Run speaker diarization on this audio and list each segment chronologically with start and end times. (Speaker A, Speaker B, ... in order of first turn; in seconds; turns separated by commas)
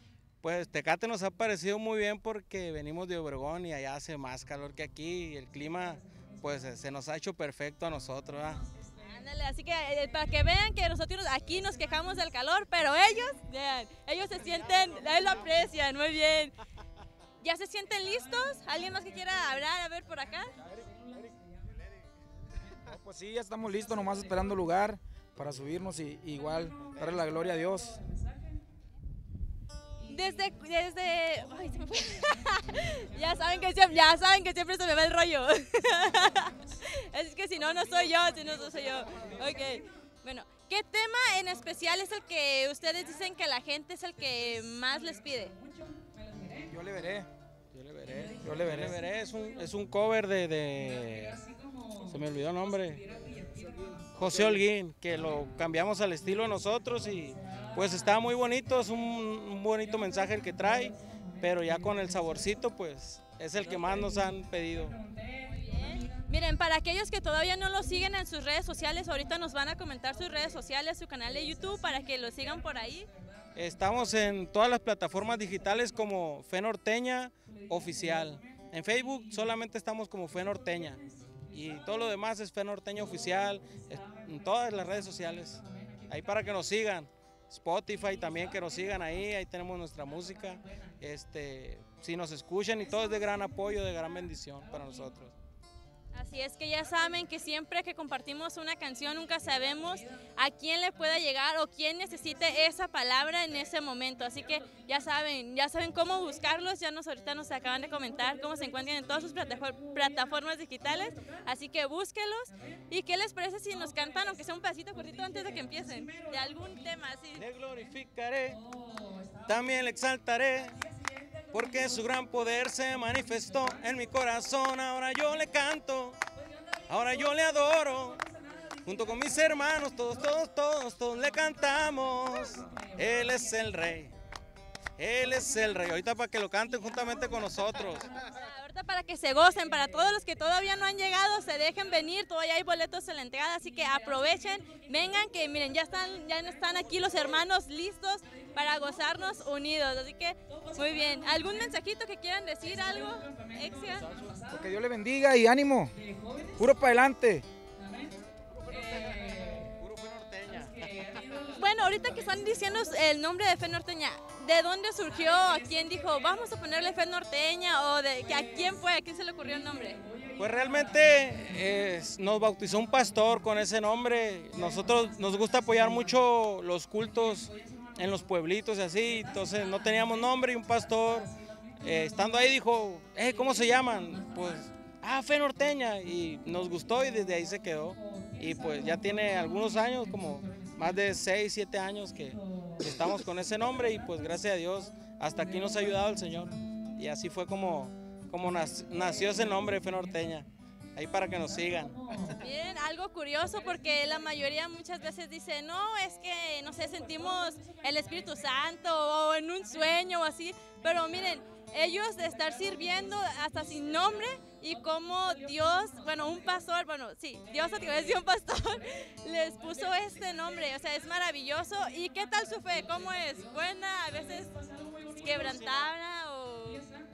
Speaker A: 0.4-8.7, Speaker B: 9.0-16.5, Speaker B: 17.4-20.5, Speaker C: 22.9-28.0, Speaker B: 30.1-45.6, Speaker C: 46.6-47.3, Speaker A: 47.7-51.4, Speaker C: 48.4-49.0, Speaker A: 52.0-53.1, Speaker A: 54.1-65.0, Speaker B: 65.5-73.1, Speaker A: 73.5-95.3, Speaker B: 96.1-117.4, Speaker A: 117.4-118.6, Speaker A: 119.5-120.8, Speaker A: 121.5-126.2, Speaker A: 126.9-128.2, Speaker A: 128.8-134.1, Speaker A: 135.0-138.1, Speaker B: 138.2-154.1, Speaker A: 154.1-154.4, Speaker C: 154.5-156.0, Speaker C: 156.6-157.5, Speaker A: 158.6-160.9, Speaker B: 161.5-170.0, Speaker A: 170.4-202.3, Speaker B: 202.4-224.6, Speaker B: 225.1-226.9